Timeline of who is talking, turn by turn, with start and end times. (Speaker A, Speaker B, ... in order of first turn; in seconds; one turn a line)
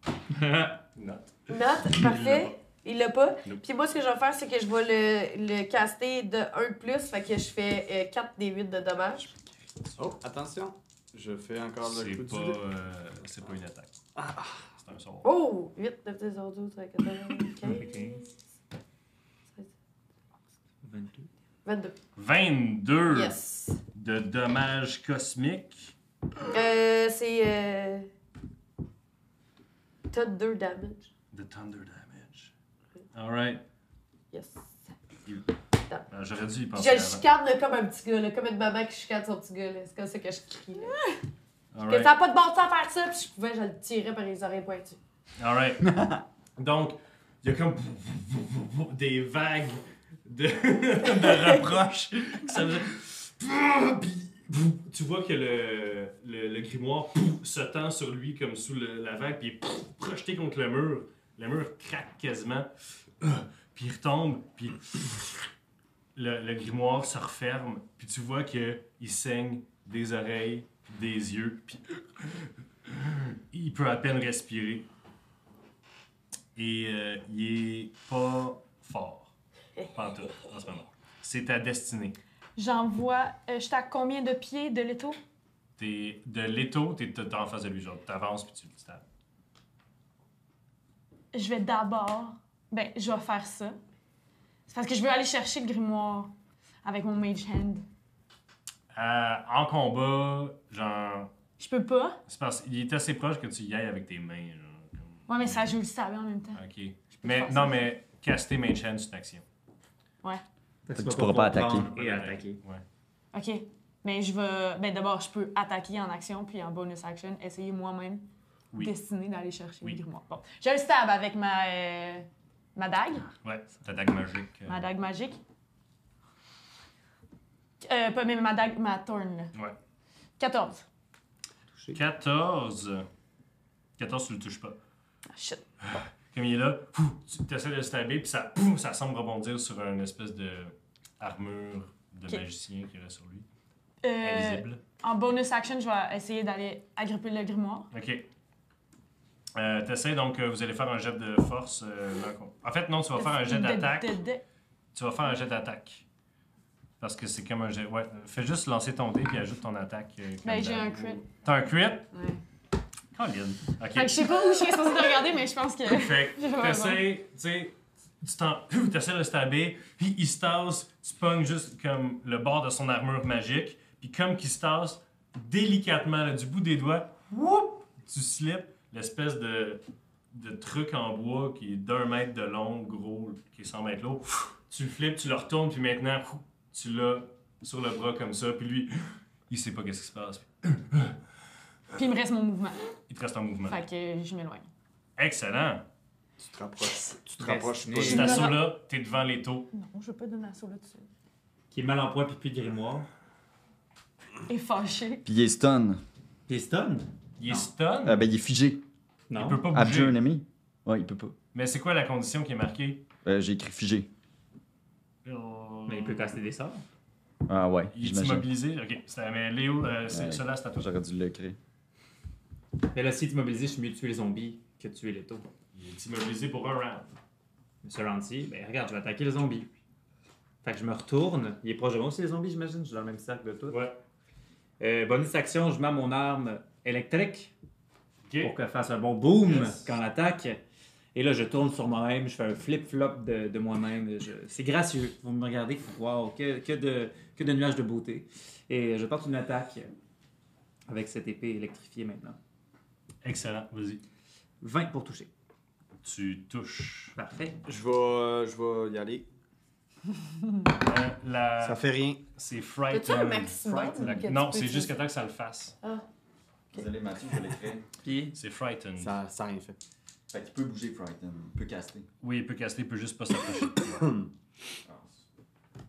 Speaker A: 0.3-0.8
Speaker B: 0.9-2.5
Speaker C: 1.5-9.3
Speaker D: 10.0-12.6
Speaker B: 11.8-13.9
Speaker D: 14.2-14.6
Speaker B: 14.8-15.3
Speaker C: 15.2-18.3
Speaker A: 17.7-18.2
Speaker A: 20.8-21.3
Speaker C: 21.6-21.9
Speaker B: 22.1-23.3
Speaker C: 23.1-23.8
Speaker B: 23.9-25.9
Speaker C: 26.5-28.1
Speaker C: 30.1-31.1
Speaker B: 31.3-32.5
Speaker B: 33.1-33.6
Speaker C: 34.3-34.9
Speaker B: 36.1-37.2
Speaker C: 36.7-41.0
Speaker B: 41.7-42.1
Speaker C: 41.9-45.0
Speaker B: 45.4-46.0
Speaker B: 46.6-62.7
Speaker B: 63.2-65.4
Speaker B: 66.1-74.9
Speaker B: 76.5-79.3
Speaker B: 79.9-82.2
Speaker E: 82.6-85.2
Speaker B: 85.8-89.0
Speaker E: 91.3-93.8
Speaker E: 94.7-96.3
Speaker E: 96.8-97.8
Speaker B: 98.9-101.3
Speaker E: 101.6-102.2
Speaker B: 102.3-105.7
Speaker E: 105.3-107.9
Speaker B: 106.5-109.4
Speaker A: 110.8-112.6
Speaker F: 110.9-111.9
Speaker B: 111.6-112.8
Speaker E: 113.3-123.3
Speaker B: 123.4-124.8
Speaker E: 124.7-125.4
Speaker E: 127.8-129.5
Speaker E: 130.4-130.8
Speaker A: 131.7-132.0
Speaker B: 131.9-133.1
Speaker B: 134.0-134.8
Speaker E: 135.3-135.6
Speaker B: 135.8-143.4
Speaker E: 144.0-147.9
Speaker B: 144.2-144.8
Speaker B: 147.9-148.2
Speaker B: 149.5-154.2
Speaker E: 153.2-154.4
Speaker B: 154.9-156.0
Speaker B: 157.0-162.1
Speaker E: 160.4-161.2
Speaker E: 162.1-162.4
Speaker B: 163.1-164.5
Speaker E: 163.9-167.1
Speaker B: 165.8-179.8
Speaker B: 180.3-191.2
Speaker E: 191.9-192.8
Speaker B: 193.1-193.8
Speaker E: 193.7-194.7
Speaker B: 195.2-195.8
Speaker D: 196.4-198.5
Speaker A: 197.4-198.4
Speaker B: 198.0-199.7
Speaker E: 198.1-198.7
Speaker E: 199.7-201.1
Speaker A: 201.7-203.1
Speaker E: 204.5-205.2
Speaker F: 205.2-206.0
Speaker A: 206.5-207.7
Speaker B: 207.4-208.2
Speaker F: 208.0-208.8
Speaker A: 209.3-209.7
Speaker B: 209.3-210.2
Speaker F: 209.7-211.3
Speaker B: 211.5-213.0
Speaker F: 213.2-214.1
Speaker B: 215.2-216.3
Speaker A: 215.9-216.8
Speaker F: 217.5-218.5
Speaker B: 217.9-220.9
Speaker F: 220.1-221.6
Speaker A: 222.9-225.4
Speaker B: 225.7-227.1
Speaker A: 227.8-229.7
Speaker A: 230.6-233.8
Speaker B: 233.7-234.0
Speaker A: 234.8-237.5
Speaker B: 238.3-238.5
Speaker A: 238.4-240.6
Speaker B: 239.4-239.9
Speaker A: 241.1-249.9
Speaker A: 250.9-252.4
Speaker B: 253.2-254.0
Speaker A: 254.6-255.3
Speaker B: 256.0-257.1
Speaker A: 257.1-257.6
Speaker D: 257.6-259.3
Speaker B: 260.7-265.7
Speaker D: 261.6-262.2
Speaker C: 262.9-264.9
Speaker F: 266.7-267.8
Speaker A: 268.0-268.4
Speaker B: 268.3-269.1
Speaker D: 269.0-269.8
Speaker F: 270.3-272.1
Speaker B: 272.2-274.1
Speaker D: 273.9-274.3
Speaker F: 274.9-275.2